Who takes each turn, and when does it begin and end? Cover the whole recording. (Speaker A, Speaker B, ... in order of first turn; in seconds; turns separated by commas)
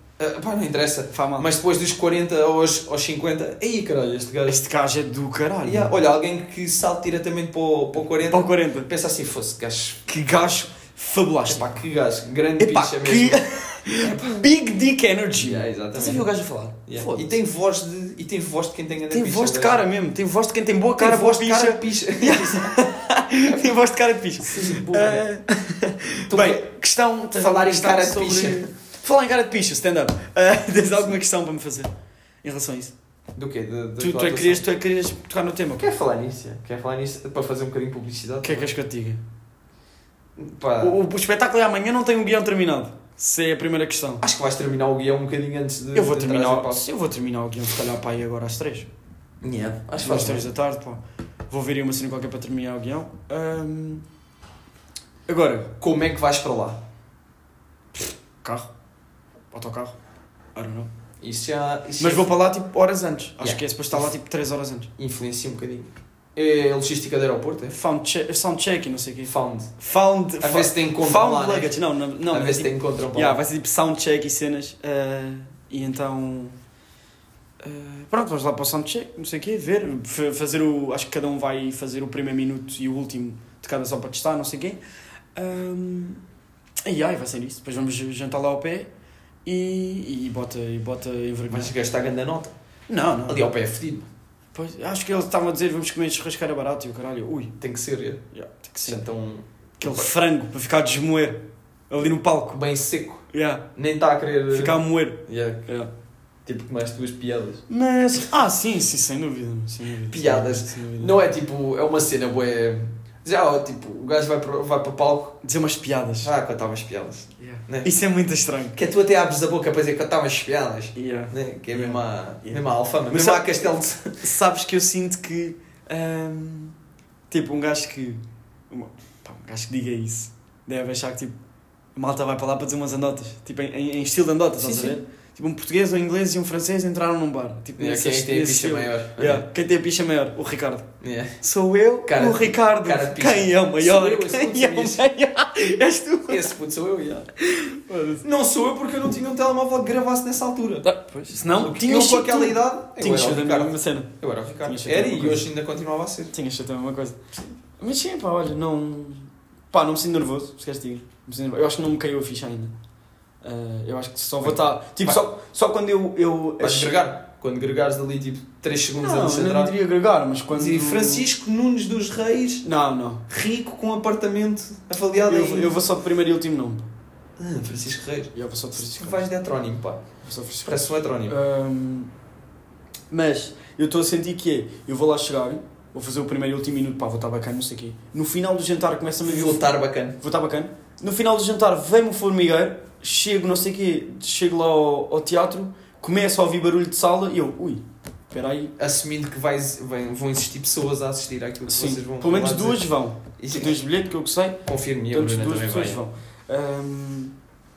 Speaker A: 0.2-4.6, Speaker B: 1.1-1.5, Speaker B: 4.5-5.9, Speaker A: 5.6-10.1, Speaker B: 8.3-8.9, Speaker B: 10.1-11.8, Speaker A: 11.5-13.4, Speaker B: 12.6-17.4, Speaker A: 14.0-14.5, Speaker A: 15.3-16.3, Speaker A: 16.9-19.8, Speaker B: 19.1-31.9, Speaker A: 21.0-22.8, Speaker A: 23.4-23.8, Speaker A: 24.4-25.2, Speaker A: 26.3-26.6, Speaker A: 27.4-28.7, Speaker B: 32.4-32.9, Speaker A: 33.3-34.6, Speaker B: 34.0-35.9, Speaker A: 35.8-38.7, Speaker B: 38.4-39.2, Speaker A: 40.4-41.0, Speaker B: 40.8-44.2, Speaker A: 44.2-46.8, Speaker B: 45.9-48.9, Speaker A: 49.4-50.5, Speaker B: 50.0-54.0, Speaker B: 55.3-55.7, Speaker A: 55.8-56.8, Speaker B: 57.9-58.7, Speaker B: 59.5-59.9, Speaker B: 60.5-60.9, Speaker A: 61.2-62.3, Speaker B: 62.0-64.9, Speaker A: 63.4-64.1, Speaker A: 65.0-67.8, Speaker B: 67.7-76.6, Speaker A: 69.2-69.7, Speaker A: 70.4-71.8, Speaker A: 72.3-73.4, Speaker B: 77.6-84.8, Speaker B: 85.3-86.2, Speaker B: 86.8-88.9, Speaker B: 89.4-91.7, Speaker A: 91.5-92.5, Speaker B: 92.9-93.5, Speaker A: 93.3-94.1, Speaker B: 94.5-97.5, Speaker A: 97.6-98.2, Speaker B: 98.3-99.0, Speaker A: 98.8-100.1, Speaker B: 99.8-102.6, Speaker A: 102.5-103.2, Speaker B: 103.3-103.7, Speaker A: 103.8-105.7, Speaker B: 104.5-105.9, Speaker A: 106.5-107.6, Speaker B: 107.7-111.2, Speaker A: 110.1-115.4, Speaker B: 115.4-116.3, Speaker A: 116.2-117.9, Speaker B: 117.4-118.8, Speaker A: 118.8-124.2, Speaker B: 120.9-123.7, Speaker B: 124.2-126.8, Speaker B: 127.3-131.3, Speaker B: 131.9-140.9, Speaker A: 134.6-135.0, Speaker A: 137.8-139.4, Speaker A: 141.0-141.4, Speaker B: 141.4-146.5, Speaker A: 142.1-145.0, Speaker A: 146.3-147.3, Speaker B: 147.4-148.2, Speaker A: 148.2-150.9, Speaker B: 150.8-154.1, Speaker A: 151.5-156.3, Speaker B: 154.6-155.5, Speaker B: 156.3-157.2, Speaker B: 157.8-162.7, Speaker B: 163.4-166.9, Speaker A: 164.4-165.2, Speaker A: 166.6-169.7, Speaker B: 168.9-171.3, Speaker A: 170.5-172.7, Speaker B: 172.6-173.2, Speaker A: 173.3-175.8, Speaker B: 175.3-176.9, Speaker A: 177.4-180.0, Speaker B: 178.3-179.2, Speaker B: 180.2-182.1, Speaker A: 180.6-181.3, Speaker B: 183.1-189.7, Speaker A: 189.2-190.2, Speaker B: 190.2-198.7, Speaker A: 198.8-202.8, Speaker B: 201.7-207.3, Speaker A: 203.4-203.8, Speaker A: 204.7-206.0